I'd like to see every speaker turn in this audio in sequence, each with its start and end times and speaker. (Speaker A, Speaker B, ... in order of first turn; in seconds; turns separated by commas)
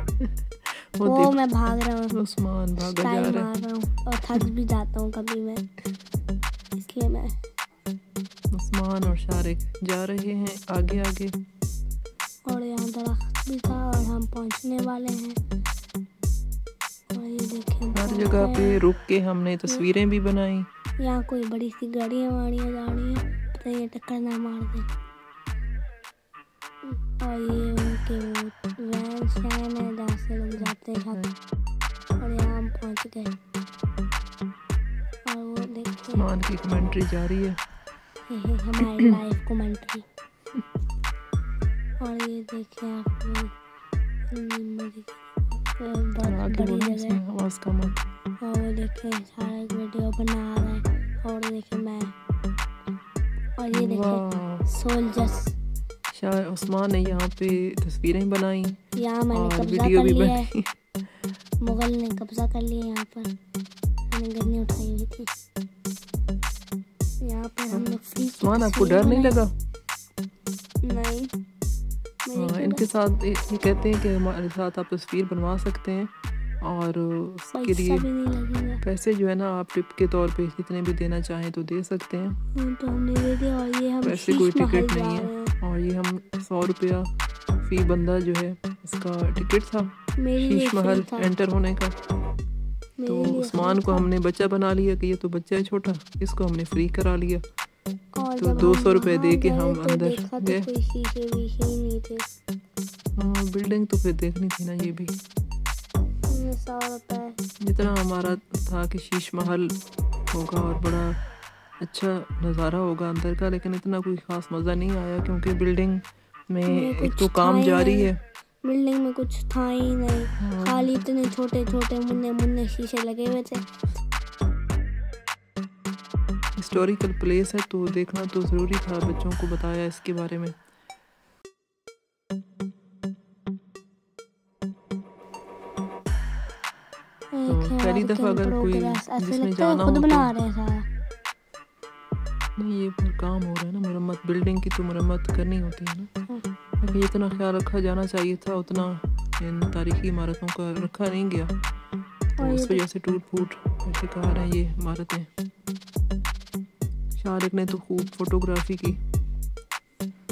Speaker A: 0.2-1.4, Speaker B: 1.0-2.2, Speaker A: 2.1-3.5, Speaker B: 2.8-5.7, Speaker B: 6.8-7.4, Speaker A: 8.5-11.3, Speaker B: 12.5-15.4, Speaker B: 17.1-18.8, Speaker A: 17.9-20.7, Speaker B: 21.0-24.9, Speaker B: 26.9-31.3, Speaker A: 30.6-31.3, Speaker B: 32.2-33.4, Speaker B: 35.3-36.3, Speaker A: 36.1-37.6, Speaker B: 38.3-40.0, Speaker A: 38.8-39.1, Speaker B: 42.0-43.5, Speaker B: 44.3-47.2, Speaker A: 46.2-48.1, Speaker B: 48.4-52.1, Speaker B: 53.6-55.6, Speaker A: 53.7-54.7, Speaker A: 56.1-58.8, Speaker B: 59.0-60.5, Speaker A: 59.3-60.8, Speaker B: 61.6-63.3, Speaker B: 64.1-65.3, Speaker B: 67.2-69.4, Speaker A: 67.7-69.5, Speaker B: 70.8-71.3, Speaker B: 72.3-72.9, Speaker A: 72.3-78.0, Speaker B: 77.5-78.8, Speaker A: 78.8-82.4, Speaker B: 82.5-85.5, Speaker A: 84.0-92.0, Speaker B: 90.2-91.3, Speaker B: 93.0-94.1, Speaker A: 93.1-97.4, Speaker B: 98.2-102.3, Speaker A: 98.4-100.7, Speaker A: 103.2-105.2, Speaker B: 106.3-107.4, Speaker A: 107.6-109.8, Speaker A: 110.3-111.2, Speaker A: 111.8-118.2, Speaker B: 116.7-118.1, Speaker B: 118.6-123.7, Speaker A: 120.4-120.9, Speaker A: 126.6-130.6, Speaker B: 137.3-140.9, Speaker A: 137.5-140.3, Speaker A: 142.6-146.1, Speaker A: 146.8-151.5, Speaker B: 152.4-152.8, Speaker A: 152.4-155.3, Speaker A: 157.2-159.0